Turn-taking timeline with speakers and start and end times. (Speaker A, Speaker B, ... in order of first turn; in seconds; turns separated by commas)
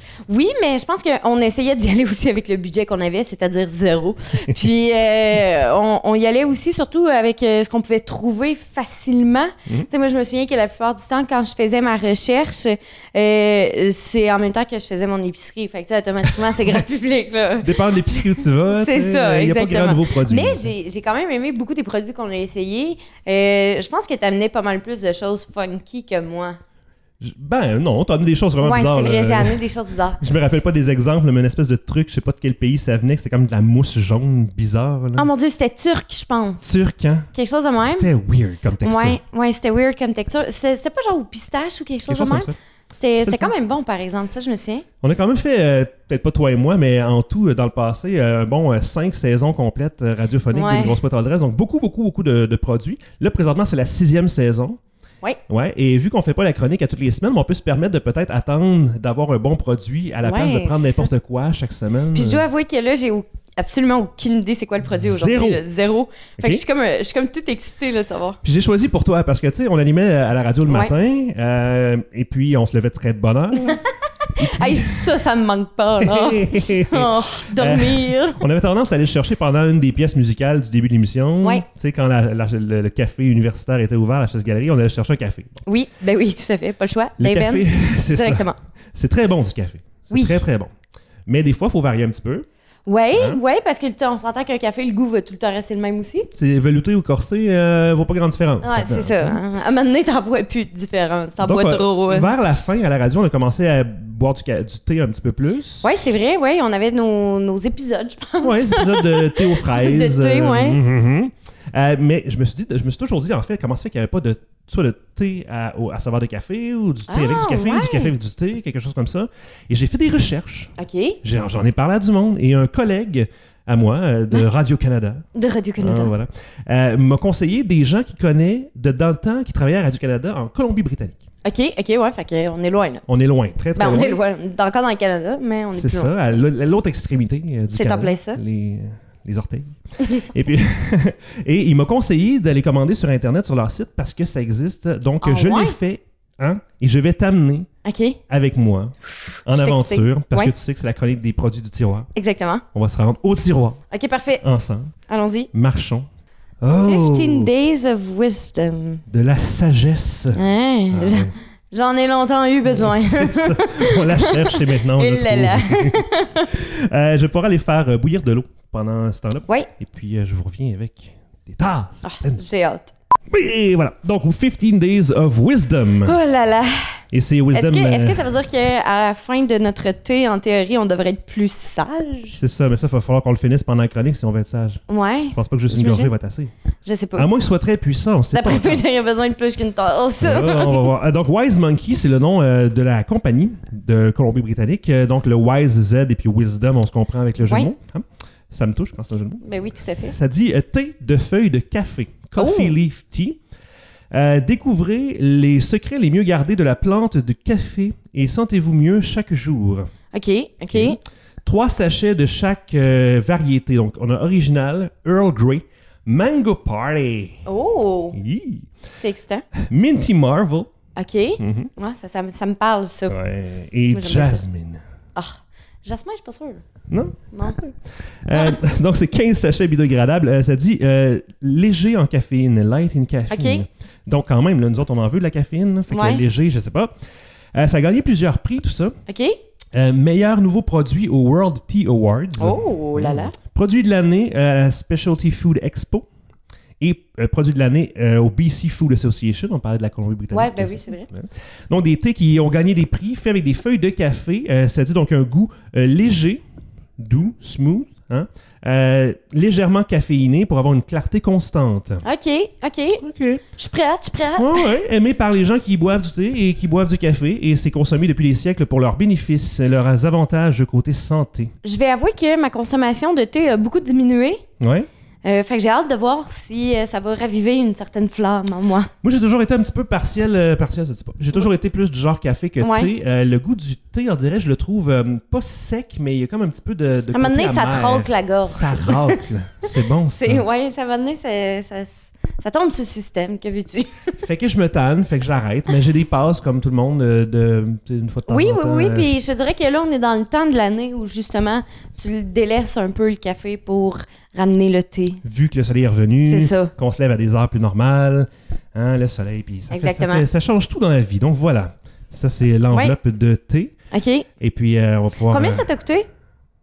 Speaker A: 0.3-26.6, Speaker B: 17.6-20.7, Speaker B: 27.2-29.6, Speaker A: 28.6-30.2, Speaker B: 30.2-35.3, Speaker A: 35.2-36.7, Speaker B: 36.6-39.2, Speaker A: 37.3-38.1, Speaker A: 38.8-44.9, Speaker B: 42.1-42.6, Speaker B: 43.2-43.5, Speaker B: 45.0-54.8, Speaker A: 50.5-51.0, Speaker B: 55.5-62.4, Speaker A: 60.2-61.1, Speaker A: 62.1-68.4, Speaker B: 64.9-65.6, Speaker B: 68.4-73.8, Speaker A: 70.7-70.9, Speaker A: 73.6-78.4, Speaker B: 74.4-75.1, Speaker B: 76.0-85.6, Speaker A: 85.7-88.6, Speaker B: 87.2-90.7, Speaker A: 90.1-90.4, Speaker B: 91.2-92.5, Speaker A: 92.8-96.3, Speaker B: 93.1-93.4, Speaker B: 96.3-99.4, Speaker A: 98.6-102.3, Speaker B: 101.4-105.9, Speaker A: 105.8-110.8, Speaker B: 108.4-125.2, Speaker A: 117.1-118.1, Speaker A: 120.8-121.2, Speaker A: 125.3-126.1, Speaker B: 125.8-131.2, Speaker A: 131.4-133.0, Speaker B: 133.1-134.2, Speaker A: 133.8-136.2, Speaker B: 135.7-147.7, Speaker A: 137.7-138.4, Speaker A: 140.0-140.3, Speaker A: 145.2-145.8, Speaker A: 147.8-148.2, Speaker B: 148.3-152.1, Speaker A: 149.1-150.5, Speaker A: 152.1-152.6, Speaker B: 152.7-153.8, Speaker A: 153.9-154.4, Speaker B: 154.4-154.9, Speaker A: 155.1-155.5, Speaker B: 155.5-156.1, Speaker B: 156.6-157.5, Speaker A: 156.7-159.0, Speaker B: 159.1-161.3, Speaker A: 160.3-166.5, Speaker B: 162.7-172.4, Speaker A: 172.0-172.9, Speaker B: 173.3-176.2, Speaker A: 176.0-177.0, Speaker B: 177.1-178.2, Speaker A: 177.5-182.4, Speaker B: 182.3-186.5, Speaker A: 184.9-186.1, Speaker A: 186.8-187.3, Speaker B: 187.2-188.8, Speaker A: 188.3-190.9, Speaker B: 190.2-203.4, Speaker A: 197.4-197.7, Speaker A: 199.4-200.2, Speaker A: 202.4-202.7, Speaker B: 204.1-209.9, Speaker A: 210.1-211.0, Speaker B: 210.7-217.4, Speaker A: 217.5-218.2, Speaker B: 218.1-218.7, Speaker A: 219.0-219.5, Speaker B: 219.5-220.7, Speaker A: 221.0-223.2, Speaker B: 221.4-221.7, Speaker B: 223.1-224.8, Speaker A: 223.9-224.4, Speaker A: 225.2-226.6, Speaker B: 226.9-236.9, Speaker A: 227.3-227.6, Speaker A: 228.3-228.6, Speaker A: 233.3-233.7, Speaker A: 235.9-236.2, Speaker B: 237.5-239.0, Speaker A: 239.1-239.4, Speaker B: 239.7-246.1, Speaker A: 242.4-243.3, Speaker B: 246.8-256.4, Speaker A: 250.3-251.1, Speaker B: 257.0-262.0, Speaker A: 262.0-264.7, Speaker B: 263.0-263.4, Speaker B: 264.4-271.5, Speaker A: 271.6-274.4, Speaker B: 274.6-274.9, Speaker A: 275.2-278.9, Speaker B: 279.0-290.4, Speaker A: 282.6-282.9, Speaker A: 287.1-289.2, Speaker A: 290.1-294.2, Speaker B: 294.2-299.1, Speaker A: 298.3-305.2, Speaker B: 305.2-313.7, Speaker A: 306.2-306.7, Speaker A: 309.7-310.2, Speaker A: 313.9-314.3, Speaker B: 314.4-315.7, Speaker A: 315.3-316.1